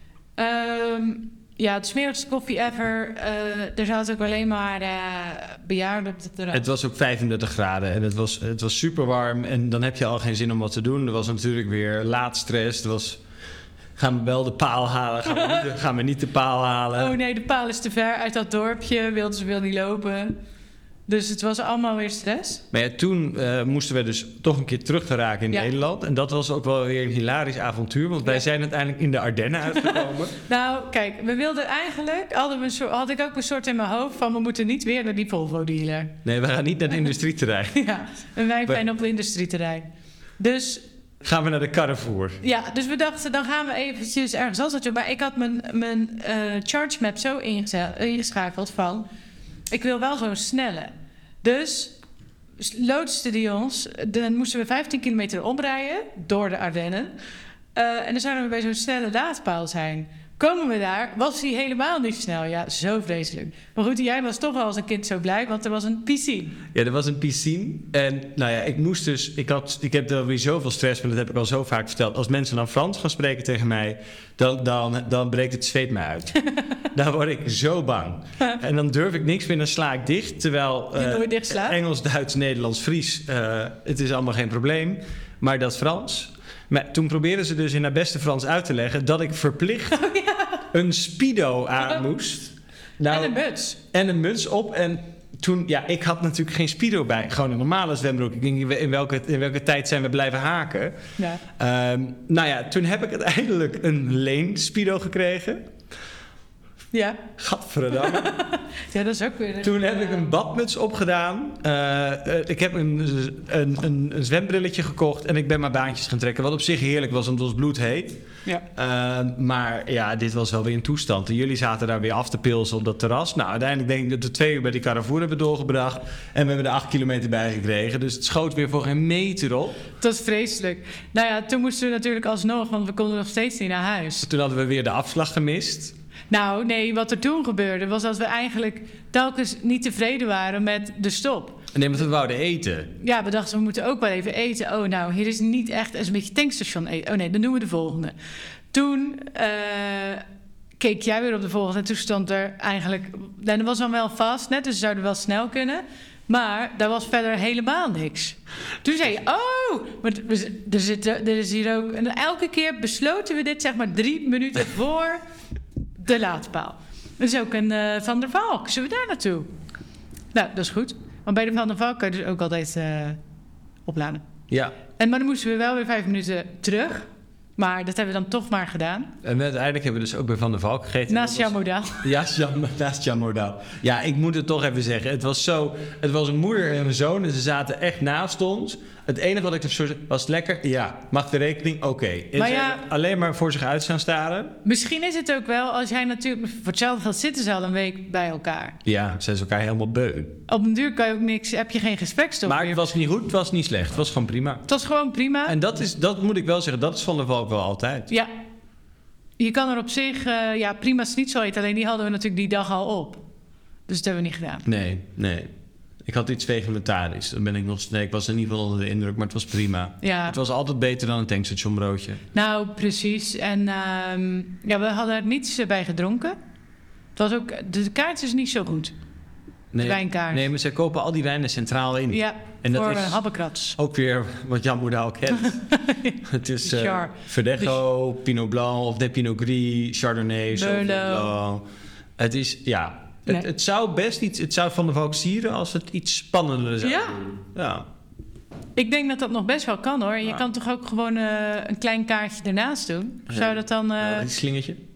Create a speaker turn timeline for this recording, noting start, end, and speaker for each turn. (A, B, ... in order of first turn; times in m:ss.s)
0:00.4-0:06.7 A
0:06.5-0:13.2 B
0:14.0-0:17.2 B
0:15.3-0:15.7 A
0:17.0-0:20.4 A
0:21.1-0:22.6 A
0:22.7-0:30.4 B
0:29.8-0:36.2 A
0:36.2-0:37.9 B
0:37.7-0:39.9 A
0:40.4-0:40.8 A
0:41.2-0:42.4 B
0:42.4-0:49.1 A
0:49.7-0:52.0 A
0:52.6-0:57.1 A
0:57.7-1:06.6 A
1:06.7-1:30.0 B
1:21.0-1:21.8 A
1:30.0-1:30.7 A
1:30.7-1:33.4 B
1:31.8-1:32.1 A
1:33.1-1:33.8 A
1:33.9-1:41.0 B
1:41.6-1:45.7 B
1:46.9-1:47.2 A
1:47.4-1:48.4 B
1:47.9-1:50.3 A
1:49.6-2:09.9 B
2:10.0-2:14.3 A
2:14.2-2:16.0 B
2:16.3-2:21.6 A
2:21.7-2:22.9 B
2:23.0-2:28.1 A
2:28.7-2:30.2 A
2:30.8-2:45.2 A
2:46.0-2:49.5 A
2:50.3-2:53.2 A
2:53.9-2:54.2 A
2:54.5-2:54.8 B
2:54.9-2:59.1 A
2:59.2-3:14.6 B
3:01.1-3:02.1 A
3:12.4-3:12.8 A
3:14.6-3:18.8 A
3:18.8-3:20.4 B
3:20.5-3:22.8 A
3:22.5-3:24.7 B
3:24.7-3:25.6 A
3:25.5-3:28.1 B
3:29.4-3:33.2 A
3:33.9-3:34.6 A
3:34.6-3:35.5 B
3:36.0-3:42.2 B
3:40.0-3:40.4 A
3:42.3-3:46.4 A
3:47.2-3:48.9 A
3:49.7-3:55.7 B
3:49.8-3:50.4 A
3:52.1-3:53.8 A
3:55.4-3:57.8 A
3:56.2-4:01.6 B
4:00.5-4:01.3 A
4:02.2-4:07.9 B
4:06.8-4:07.2 A
4:08.8-4:14.3 A
4:13.3-4:14.8 B